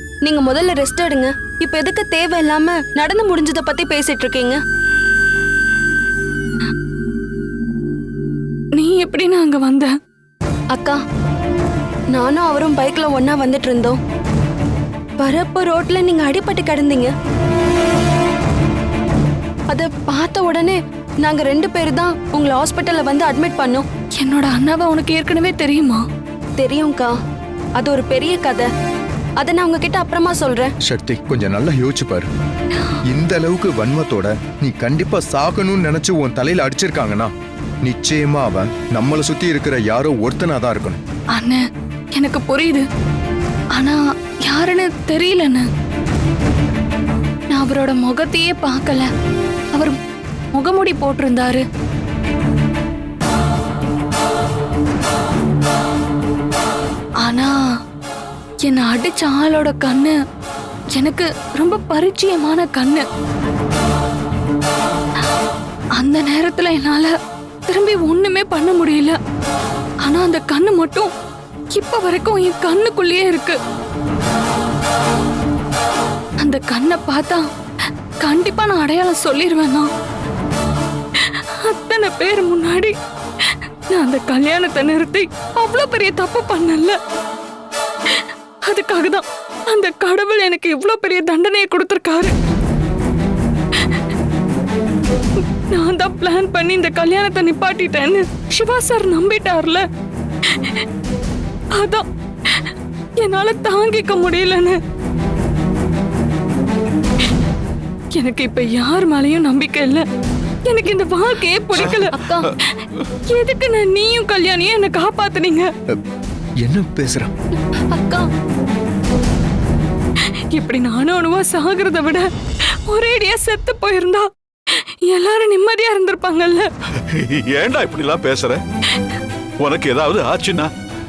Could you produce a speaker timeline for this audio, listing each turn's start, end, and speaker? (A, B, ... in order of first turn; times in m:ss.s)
0:00.2-0:04.6 A
0:08.8-0:09.9 B
0:10.7-0:11.0 A
0:12.1-0:14.0 A
0:15.2-0:17.1 A
0:19.7-0:23.8 A
0:24.2-0:26.0 B
0:26.6-0:27.1 A
0:27.8-0:28.7 A
0:29.4-0:30.7 A
0:30.8-0:32.3 C
0:33.0-0:37.3 C
0:37.8-0:41.0 C
0:41.3-0:42.8 B
0:43.7-0:45.7 B
0:47.5-0:49.1 B
0:49.7-0:50.0 B
0:50.5-0:51.6 B
0:57.2-0:57.6 B
0:58.6-1:00.2 B
1:00.9-1:03.0 B
1:05.9-1:07.1 B
1:07.7-1:09.2 B
1:10.0-1:11.1 B
1:11.7-1:13.6 B
1:16.4-1:17.5 B
1:18.2-1:19.9 B
1:21.2-1:27.0 B
1:28.0-1:32.3 B
1:33.7-1:34.0 B
1:35.4-1:39.8 B
1:40.4-1:40.8 B
1:41.7-1:44.8 B
1:48.1-1:50.0 B
1:50.7-1:55.7 B
1:56.6-1:57.3 C
1:57.9-1:58.3 A
2:00.2-2:06.7 B
2:07.1-2:08.6 D
2:09.6-2:10.7 D